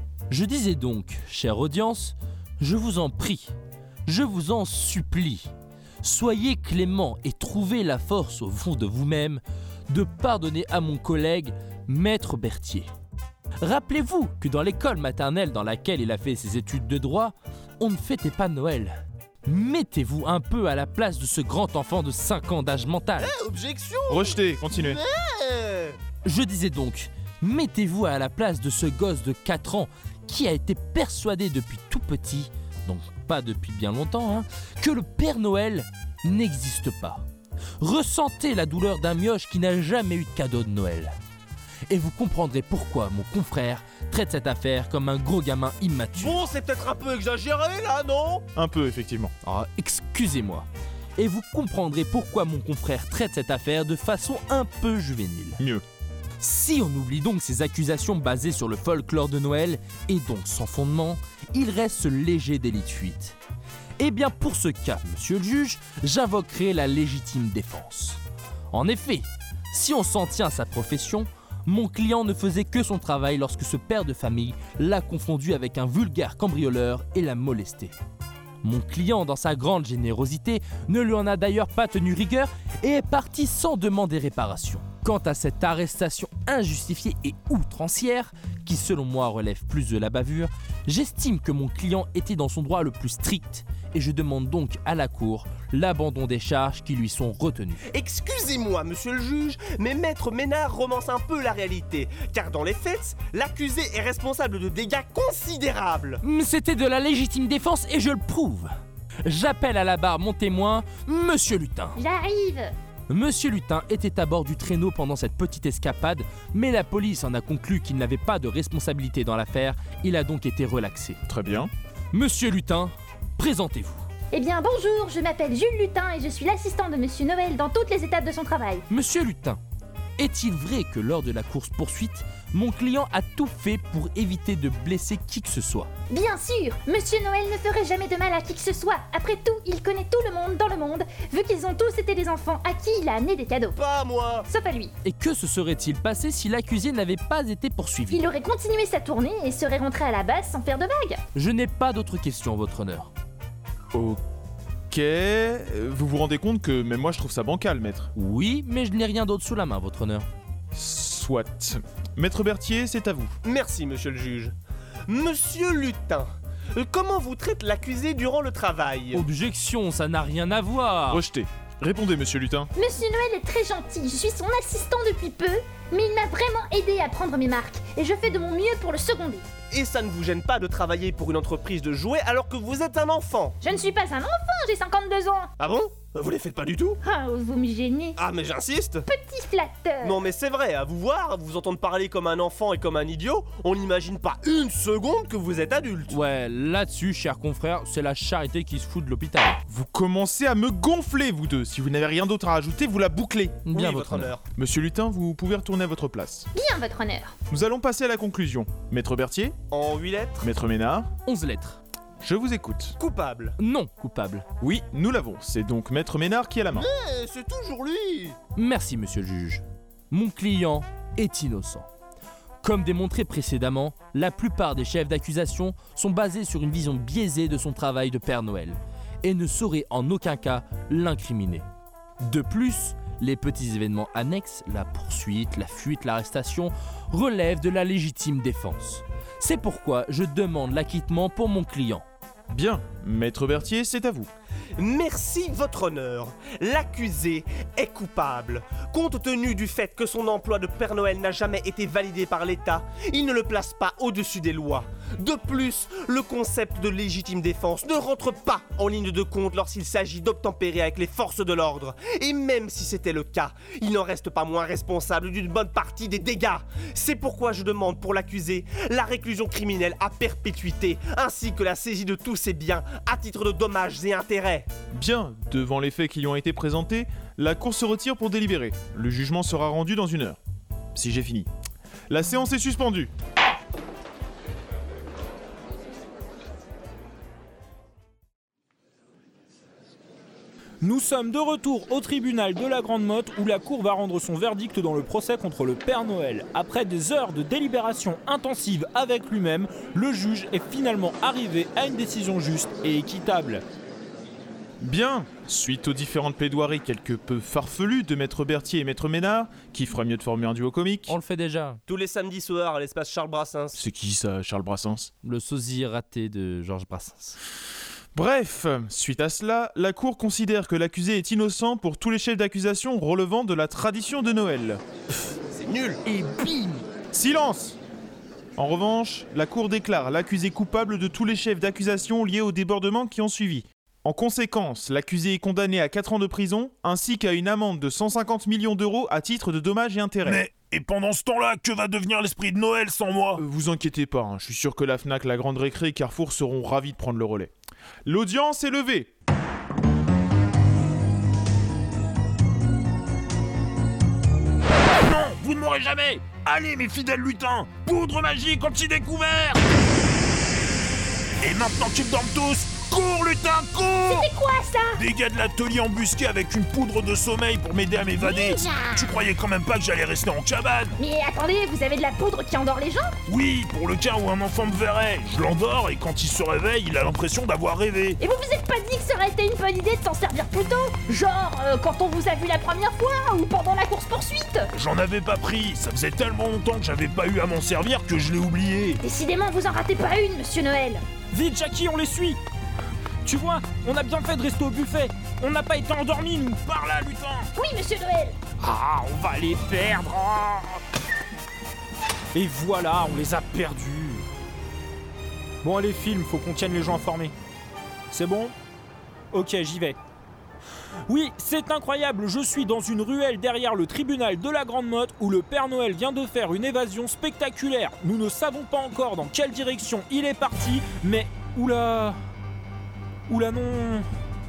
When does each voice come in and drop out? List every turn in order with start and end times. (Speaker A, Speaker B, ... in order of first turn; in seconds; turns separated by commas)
Speaker A: 0.3-3.5, Speaker A: 4.1-5.5, Speaker A: 6.0-12.9, Speaker A: 13.6-18.9, Speaker A: 19.4-23.3, Speaker B: 23.2-26.0, Speaker C: 24.1-25.0, Speaker A: 26.2-37.2, Speaker A: 37.8-41.1, Speaker A: 41.9-46.4, Speaker B: 46.2-48.5, Speaker C: 48.5-49.3, Speaker A: 49.4-55.6, Speaker C: 55.6-55.8, Speaker A: 56.4-63.4, Speaker A: 64.0-68.2, Speaker A: 68.7-77.9, Speaker A: 78.6-97.9, Speaker B: 97.9-106.2, Speaker A: 106.2-108.7, Speaker A: 109.2-112.0, Speaker D: 111.9-112.7, Speaker A: 113.1-121.2, Speaker C: 121.3-121.7, Speaker A: 122.1-124.0, Speaker D: 124.3-128.8, Speaker A: 128.9-129.6, Speaker A: 130.2-135.9, Speaker D: 136.1-143.8, Speaker B: 143.8-144.5, Speaker D: 144.5-144.9, Speaker A: 145.0-148.3, Speaker D: 148.1-151.2, Speaker A: 151.3-153.1, Speaker C: 153.9-154.2, Speaker C: 154.9-158.1, Speaker A: 158.1-160.2, Speaker C: 160.7-163.3, Speaker B: 163.4-164.5, Speaker B: 165.1-169.3, Speaker A: 169.1-171.2, Speaker C: 171.1-172.7, Speaker D: 172.7-179.4, Speaker B: 179.7-183.6, Speaker D: 183.6-185.5, Speaker B: 185.6-187.0, Speaker D: 187.0-188.2, Speaker B: 188.2-189.1, Speaker D: 189.1-190.2, Speaker B: 190.0-196.2, Speaker A: 196.1-199.6, Speaker C: 199.7-203.6, Speaker A: 203.7-204.3, Speaker B: 203.7-204.4, Speaker C: 204.5-206.5, Speaker D: 206.5-207.3, Speaker C: 207.5-209.6, Speaker B: 209.7-210.5, Speaker C: 210.4-211.1, Speaker A: 211.2-211.8, Speaker C: 212.2-212.9, Speaker B: 213.0-213.6, Speaker A: 213.6-214.4, Speaker C: 214.6-216.9, Speaker B: 216.7-218.4, Speaker A: 218.6-221.9, Speaker A: 222.6-231.6, Speaker A: 232.2-242.0, Speaker C: 242.5-244.3, Speaker B: 244.8-274.7, Speaker C: 274.9-280.4, Speaker C: 280.9-281.5, Speaker C: 282.1-283.1, Speaker E: 290.8-303.6, Speaker C: 304.8-311.1, Speaker A: 311.1-311.8, Speaker B: 311.9-313.8, Speaker C: 313.8-315.1, Speaker A: 315.2-317.4, Speaker C: 318.1-324.8, Speaker B: 325.5-326.0, Speaker A: 326.0-326.8, Speaker C: 327.1-327.8, Speaker C: 328.6-340.4, Speaker F: 340.2-343.4, Speaker C: 343.4-347.5, Speaker C: 348.1-349.1, Speaker F: 355.0-359.6, Speaker F: 361.4-364.3, Speaker D: 364.0-365.0, Speaker F: 364.9-371.0, Speaker D: 368.2-369.0, Speaker D: 371.0-373.2, Speaker F: 373.3-378.2, Speaker D: 378.2-384.7, Speaker F: 384.7-389.0, Speaker D: 389.0-391.0, Speaker E: 391.3-392.4, Speaker E: 393.2-396.6, Speaker F: 396.7-397.5, Speaker D: 397.5-398.5, Speaker E: 398.5-400.8, Speaker E: 402.3-404.2, Speaker E: 405.6-407.3, Speaker E: 408.1-408.5, Speaker E: 409.3-410.0, Speaker E: 411.1-422.2, Speaker E: 423.3-424.0